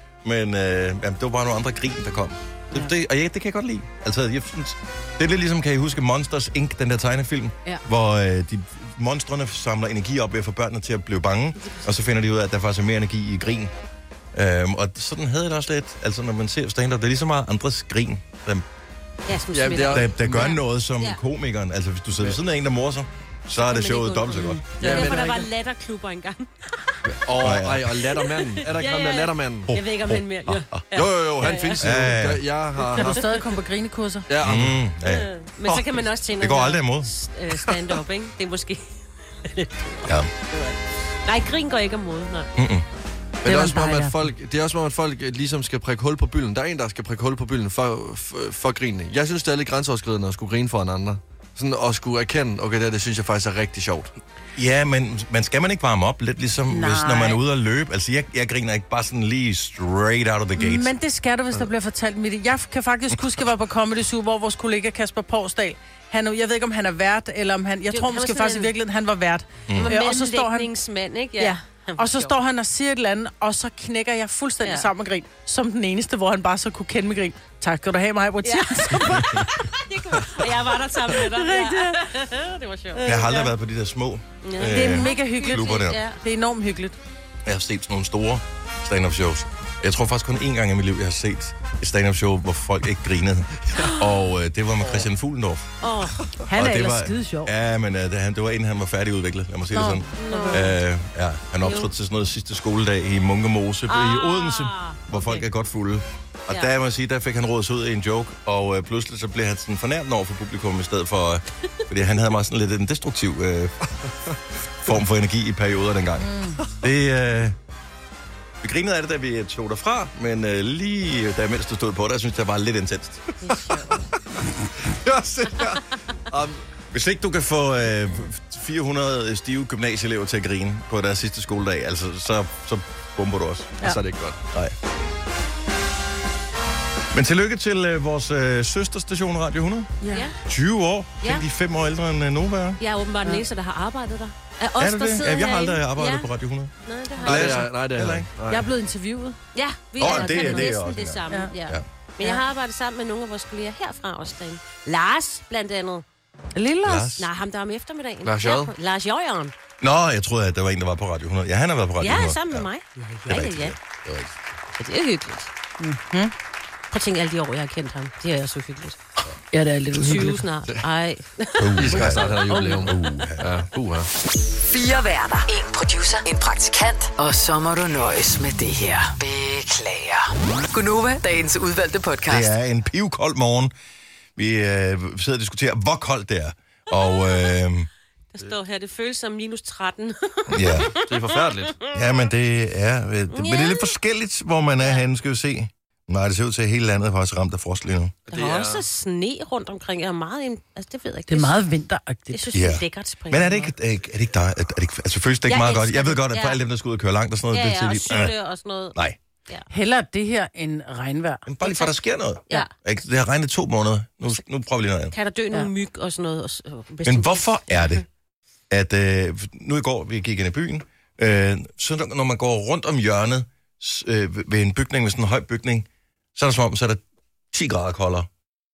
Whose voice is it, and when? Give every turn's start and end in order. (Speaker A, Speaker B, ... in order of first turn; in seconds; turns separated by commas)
Speaker A: 0.2-13.7, Speaker A: 14.3-18.6, Speaker B: 19.3-21.2, Speaker C: 19.5-20.6, Speaker A: 19.9-24.9, Speaker B: 23.5-27.0, Speaker C: 24.8-25.4, Speaker D: 24.9-25.3, Speaker C: 27.1-29.7, Speaker A: 27.4-27.9, Speaker B: 28.0-31.9, Speaker A: 29.7-30.8, Speaker C: 30.9-33.4, Speaker A: 31.8-32.4, Speaker D: 33.0-34.3, Speaker C: 34.3-34.8, Speaker A: 34.4-35.3, Speaker B: 35.0-42.5, Speaker C: 35.6-36.1, Speaker A: 36.4-37.1, Speaker A: 42.6-42.9, Speaker C: 43.4-54.1, Speaker D: 43.4-44.1, Speaker A: 54.5-60.9, Speaker D: 56.7-57.4, Speaker D: 60.6-70.7, Speaker B: 67.9-68.7, Speaker A: 69.7-69.9, Speaker B: 69.7-72.3, Speaker D: 71.4-79.5, Speaker B: 74.6-74.9, Speaker B: 78.4-83.3, Speaker D: 81.2-82.0, Speaker D: 82.9-83.5, Speaker A: 83.0-86.0, Speaker B: 84.4-86.2, Speaker D: 84.6-87.0, Speaker A: 87.4-95.7, Speaker B: 95.8-96.2, Speaker D: 96.5-97.5, Speaker A: 96.5-113.7, Speaker D: 99.7-100.7, Speaker B: 100.2-100.7, Speaker B: 101.6-101.9, Speaker B: 103.9-105.4, Speaker A: 114.8-117.5, Speaker D: 116.2-116.6, Speaker A: 118.6-123.2, Speaker B: 123.5-123.9, Speaker C: 123.5-124.0, Speaker C: 124.8-126.6, Speaker A: 126.9-133.8, Speaker C: 133.8-134.4, Speaker A: 137.1-139.9, Speaker D: 140.0-140.3, Speaker B: 140.1-140.4, Speaker A: 140.4-142.8, Speaker B: 142.8-146.3, Speaker A: 144.8-148.3, Speaker B: 146.8-147.6, Speaker C: 147.2-148.7, Speaker D: 148.5-149.4, Speaker B: 149.5-156.0, Speaker A: 150.0-151.8, Speaker D: 150.0-150.7, Speaker D: 156.5-157.1, Speaker A: 156.8-157.3, Speaker B: 157.2-159.5, Speaker C: 158.2-158.7, Speaker A: 159.8-162.7, Speaker B: 162.0-163.8, Speaker A: 163.3-164.3, Speaker B: 164.8-165.5, Speaker D: 165.8-166.3, Speaker B: 166.9-169.0, Speaker D: 169.5-170.4, Speaker B: 170.0-172.2, Speaker A: 171.6-173.7, Speaker C: 171.8-174.1, Speaker D: 172.5-173.0, Speaker E: 174.7-182.5, Speaker A: 182.3-183.7, Speaker A: 184.3-187.9, Speaker B: 186.9-187.6, Speaker B: 188.3-191.9, Speaker A: 190.5-190.9, Speaker C: 191.0-191.8, Speaker A: 191.9-198.1, Speaker B: 193.3-193.9, Speaker B: 194.8-195.0, Speaker C: 198.3-198.8, Speaker B: 198.3-201.6, Speaker D: 201.3-202.5, Speaker B: 202.3-203.7, Speaker A: 202.5-208.3, Speaker B: 205.5-206.6, Speaker B: 207.5-209.0, Speaker D: 209.7-211.4, Speaker A: 211.5-215.1, Speaker B: 211.6-211.9, Speaker B: 215.1-218.0, Speaker A: 217.0-218.0, Speaker A: 218.7-228.3